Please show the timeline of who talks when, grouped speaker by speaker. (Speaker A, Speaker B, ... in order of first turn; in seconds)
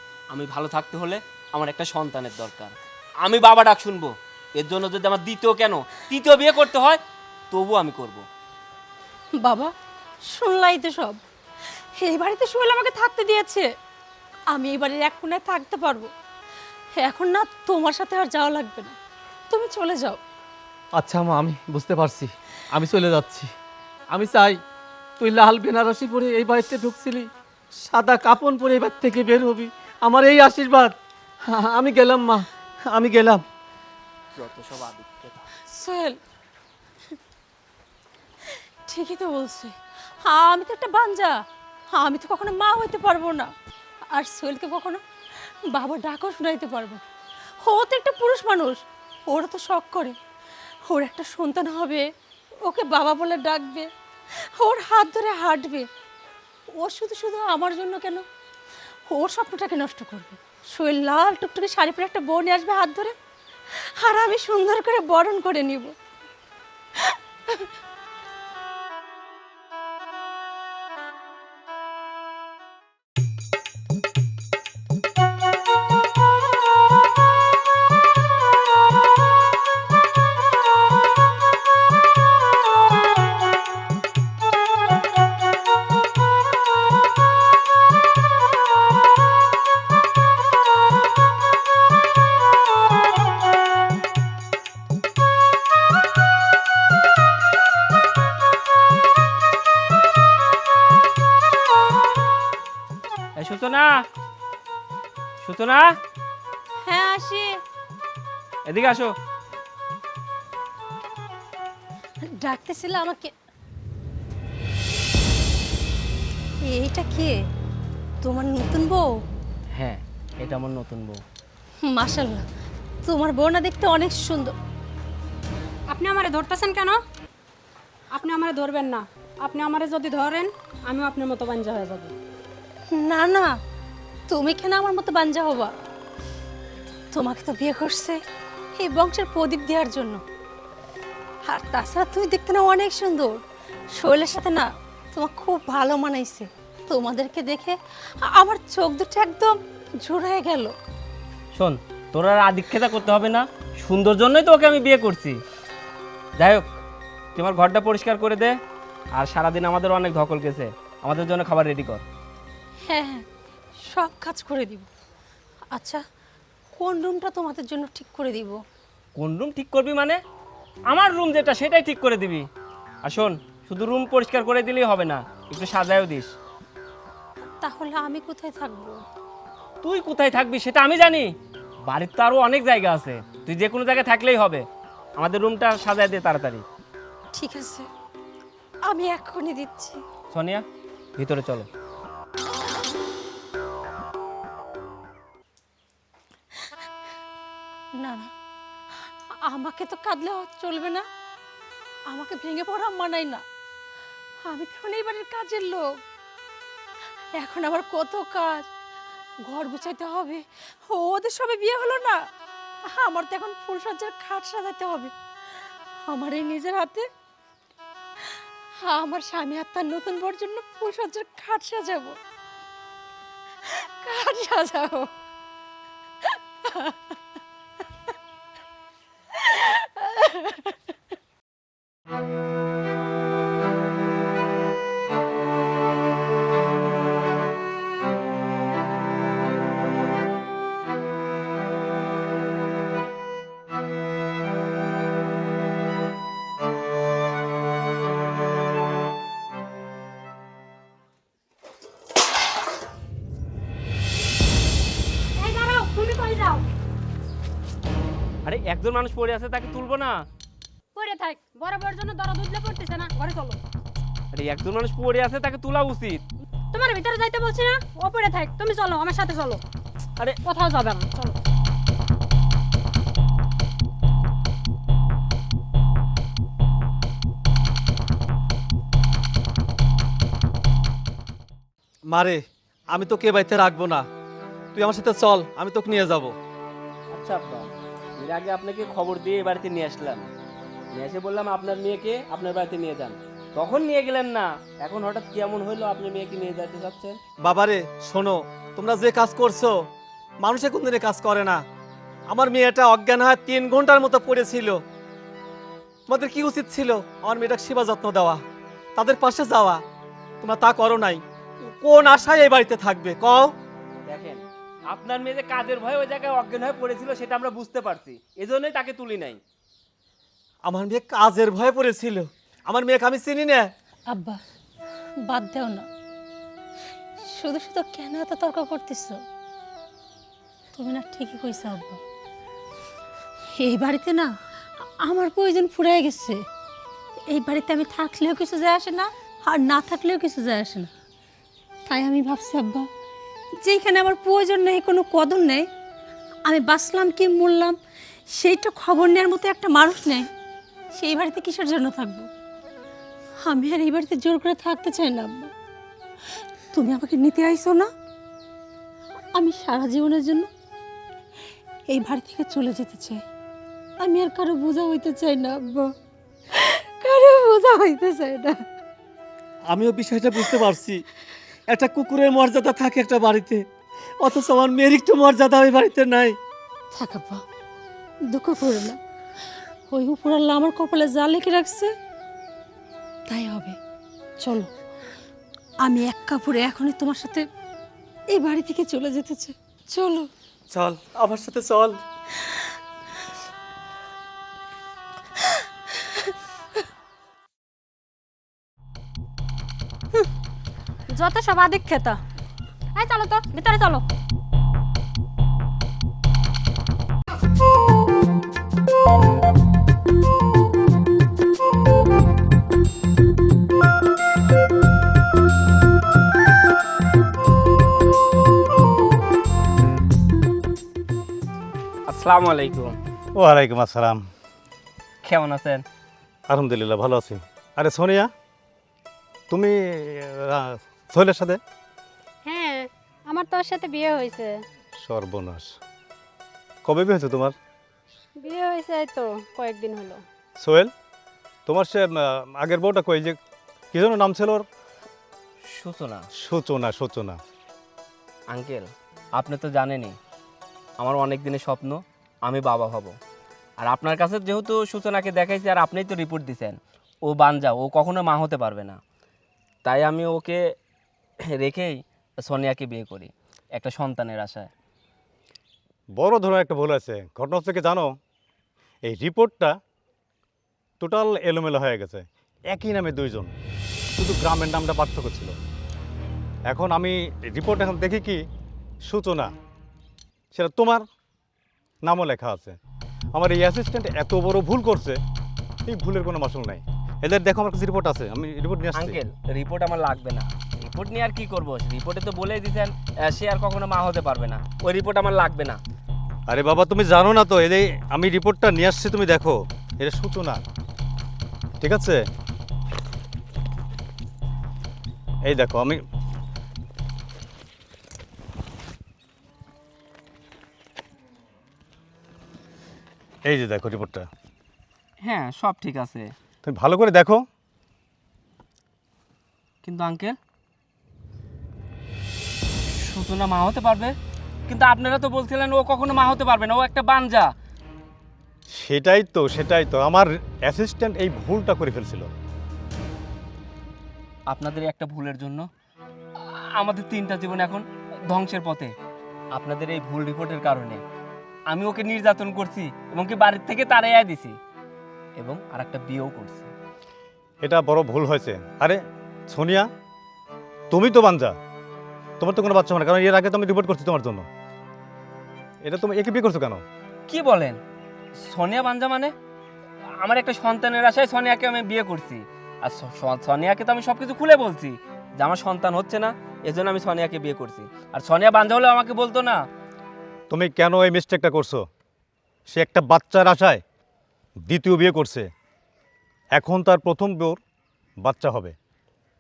Speaker A: 0.3-8.2, 34.4-35.5, 103.4-104.0, 105.4-106.0, 108.7-109.1, 119.7-121.2, 151.6-155.4, 156.4-156.8, 157.4-158.6, 159.1-162.0, 169.2-170.2, 170.9-172.5, 173.0-176.3, 179.8-181.3, 181.8-184.7, 185.2-186.6, 190.3-190.7, 191.2-191.7, 258.4-260.2, 264.3-266.2, 287.1-290.3, 290.9-297.2, 314.1-319.4, 422.1-423.0, 425.2-425.8, 445.6-446.3, 448.5-450.2, 451.0-453.2, 453.8-459.0, 459.9-460.6, 461.5-464.7, 488.9-495.8, 515.2-516.3, 519.8-520.4, 522.9-524.1, 524.7-527.5, 534.5-535.7, 536.4-538.9, 539.5-541.0, 541.7-544.6, 545.4-546.7, 557.3-557.8, 558.4-559.3, 560.2-569.6
Speaker B: 9.4-9.7, 10.3-11.2, 12.0-13.7, 14.5-16.1, 17.0-19.0, 19.5-20.2, 35.7-36.2, 38.5-43.5, 44.1-45.0, 45.7-47.0, 47.6-50.2, 50.9-52.1, 52.6-53.9, 54.6-55.9, 56.7-58.2, 59.1-63.1, 63.8-65.9, 67.0-67.7, 106.8-107.6, 112.2-113.3, 116.6-117.4, 118.2-119.2, 121.8-122.5, 123.0-124.5, 132.9-133.5, 134.3-135.7, 137.1-138.2, 138.8-140.2, 141.5-143.4, 143.9-150.8, 162.9-163.2, 163.8-164.9, 165.7-166.0, 166.8-168.6, 177.4-179.0, 187.3-187.9, 188.9-190.0, 198.0-198.3, 199.4-201.1, 202.1-203.4, 204.4-206.0, 207.3-208.7, 209.4-212.3, 212.9-215.1, 216.1-217.1, 218.2-222.2, 223.6-225.1, 226.2-227.2, 229.3-230.8, 324.1-324.4, 325.2-325.9, 327.2-329.2, 330.7-332.0, 333.6-334.3, 335.0-336.4, 337.3-340.9, 341.9-342.9, 343.6-345.7, 346.4-347.8, 348.3-350.3, 350.9-352.3, 353.4-355.5, 356.7-357.9, 359.3-360.5, 361.9-363.2, 364.0-365.9, 366.5-368.6, 376.9-377.4, 378.3-379.0, 379.9-381.9, 383.3-383.8, 384.4-384.7, 385.8-387.5, 388.3-390.3, 395.5-396.3
Speaker C: 21.0-23.5, 24.1-24.6, 25.2-27.3, 27.9-33.4, 282.1-284.1, 284.8-286.4, 297.4-299.9, 300.4-301.6, 302.3-304.8, 306.1-308.4, 309.0-309.8, 310.4-313.5, 320.6-323.7, 369.7-371.0, 371.7-373.6, 374.2-376.4, 390.7-392.0
Speaker D: 125.9-127.0, 128.1-132.1, 255.4-256.6, 260.9-263.6, 266.7-269.6, 270.4-271.4, 401.1-402.2, 402.9-404.1, 432.4-434.6, 438.4-440.2
Speaker E: 423.4-424.2, 426.5-428.3, 429.5-431.6, 435.0-435.8, 436.9-437.6, 440.6-440.9, 441.7-443.4, 443.9-444.6, 446.4-447.4, 466.2-468.1, 469.1-469.8, 471.0-473.5, 474.2-475.5, 476.7-478.4, 479.1-479.5, 480.5-481.0, 482.0-482.8, 483.3-485.2, 485.9-489.2, 496.5-500.6, 501.8-502.2, 505.4-506.0, 513.5-514.3, 516.6-517.4, 528.7-532.3, 547.6-549.9, 550.9-551.6, 552.4-554.5, 555.8-556.8, 570.5-571.9, 572.7-573.8, 574.7-575.5, 576.5-577.6, 578.2-578.8